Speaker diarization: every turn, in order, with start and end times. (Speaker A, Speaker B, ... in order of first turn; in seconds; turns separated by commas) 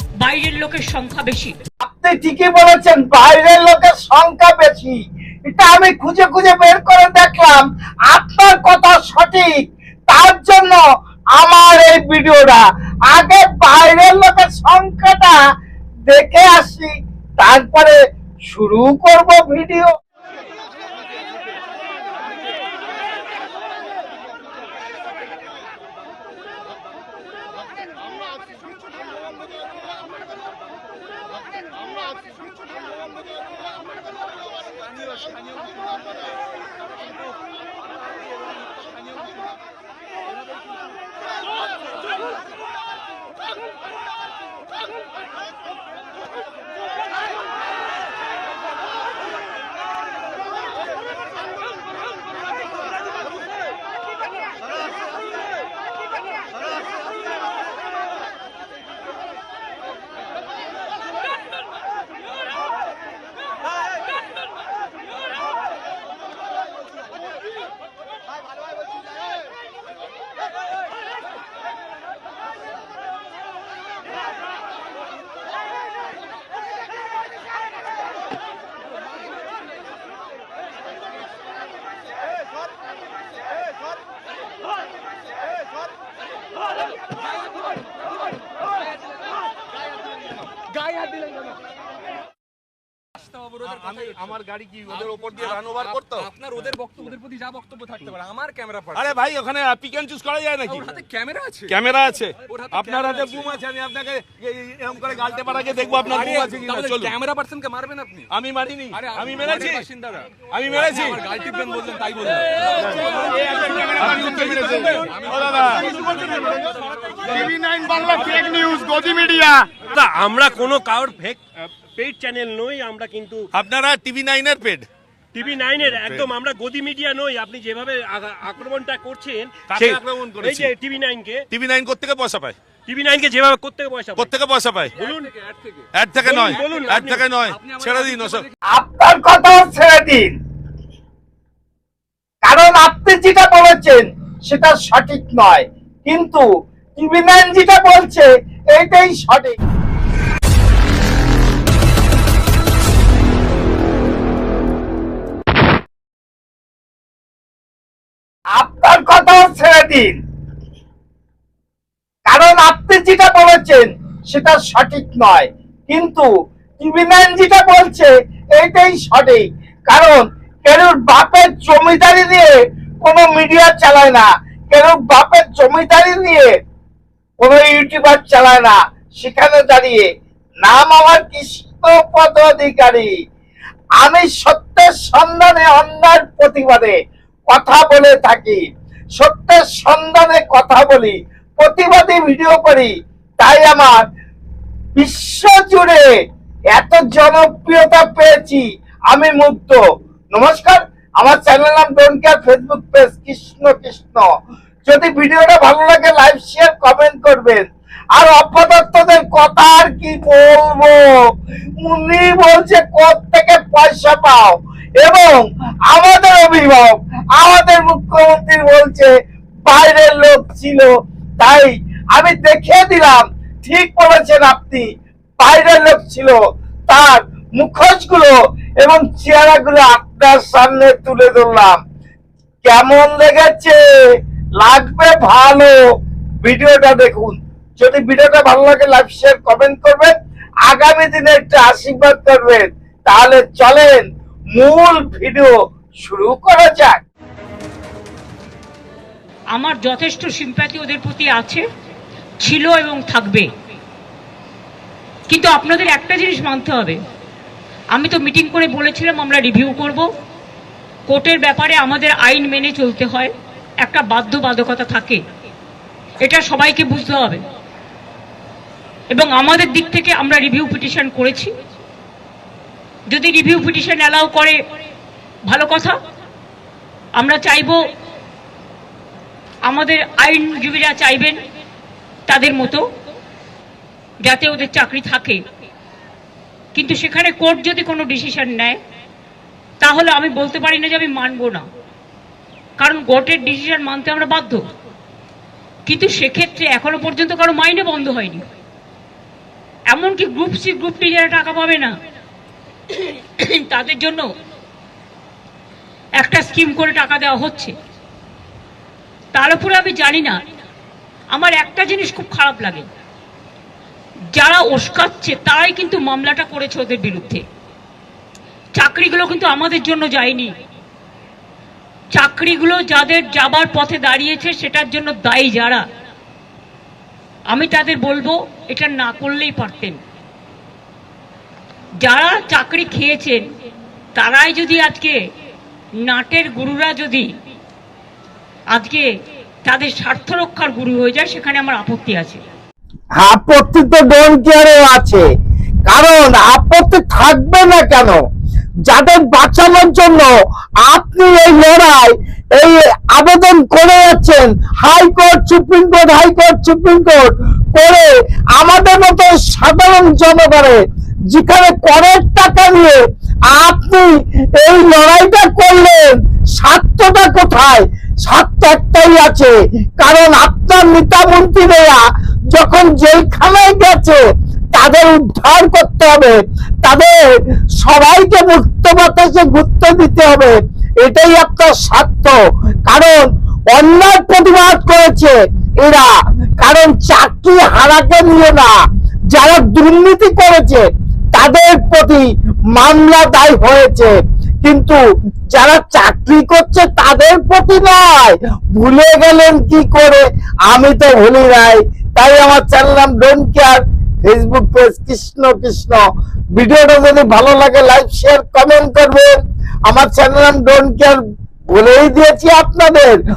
Speaker A: 0.2-1.6, Speaker B: 1.8-9.6, Speaker B: 10.1-10.8, Speaker B: 11.3-15.3, Speaker B: 16.1-19.9, Speaker C: 93.5-94.3, Speaker D: 94.2-96.3, Speaker C: 94.9-99.0, Speaker D: 98.9-100.9, Speaker C: 100.7-101.7, Speaker D: 101.7-107.1, Speaker C: 102.5-103.5, Speaker C: 106.0-108.3, Speaker D: 108.3-109.8, Speaker C: 108.9-117.5, Speaker D: 110.5-111.2, Speaker D: 113.4-115.9, Speaker D: 117.5-119.7, Speaker E: 119.9-121.4, Speaker E: 121.9-123.4, Speaker D: 123.6-124.8, Speaker E: 125.4-129.8, Speaker D: 129.7-130.7, Speaker E: 130.5-131.4, Speaker D: 131.5-132.6, Speaker E: 132.9-134.2, Speaker D: 134.2-134.9, Speaker C: 135.0-135.8, Speaker D: 135.9-138.4, Speaker E: 136.3-137.2, Speaker C: 136.4-137.0, Speaker C: 137.5-138.5, Speaker B: 138.7-140.3, Speaker B: 142.4-146.4, Speaker B: 147.0-149.6, Speaker B: 158.6-160.1, Speaker B: 162.2-166.3, Speaker B: 166.8-172.5, Speaker B: 173.0-176.5, Speaker B: 177.4-180.1, Speaker B: 180.6-183.1, Speaker B: 184.0-186.9, Speaker B: 187.5-188.6, Speaker B: 189.1-194.0, Speaker B: 194.9-196.0, Speaker B: 196.7-199.8, Speaker B: 200.3-204.3, Speaker B: 204.9-207.6, Speaker B: 208.1-211.2, Speaker B: 211.8-219.1, Speaker B: 219.7-224.8, Speaker B: 225.4-226.4, Speaker B: 226.9-231.8, Speaker B: 232.6-233.8, Speaker B: 234.6-235.7, Speaker B: 236.4-240.1, Speaker B: 240.7-244.0, Speaker B: 244.6-247.0, Speaker A: 249.5-251.6, Speaker A: 252.4-253.5, Speaker A: 255.3-257.0, Speaker A: 257.9-260.1, Speaker A: 261.1-263.3, Speaker A: 263.8-265.2, Speaker A: 266.2-267.4, Speaker A: 269.1-271.5, Speaker A: 273.1-274.6, Speaker A: 275.5-275.9, Speaker A: 277.2-277.9, Speaker A: 279.6-281.4, Speaker A: 282.3-282.9, Speaker A: 284.2-285.4, Speaker A: 286.7-288.8, Speaker A: 289.8-291.6, Speaker A: 292.8-294.7, Speaker A: 295.9-298.4, Speaker A: 299.9-301.9, Speaker A: 302.9-304.2, Speaker A: 306.2-307.7, Speaker A: 309.3-310.4, Speaker A: 311.3-312.9, Speaker A: 314.3-317.4, Speaker A: 318.7-320.5, Speaker A: 322.1-325.9, Speaker A: 327.5-330.0, Speaker A: 332.0-333.4, Speaker A: 334.1-335.2, Speaker A: 336.0-337.3, Speaker A: 338.7-339.1, Speaker A: 339.6-342.4, Speaker B: 343.2-345.2, Speaker B: 345.9-348.2, Speaker B: 348.9-350.3, Speaker B: 350.9-360.8, Speaker B: 361.3-372.0, Speaker B: 372.5-377.1, Speaker B: 377.8-386.1, Speaker B: 386.6-388.7, Speaker B: 389.3-395.0, Speaker B: 395.5-406.0, Speaker B: 406.6-409.3, Speaker B: 409.9-411.2, Speaker B: 411.7-413.1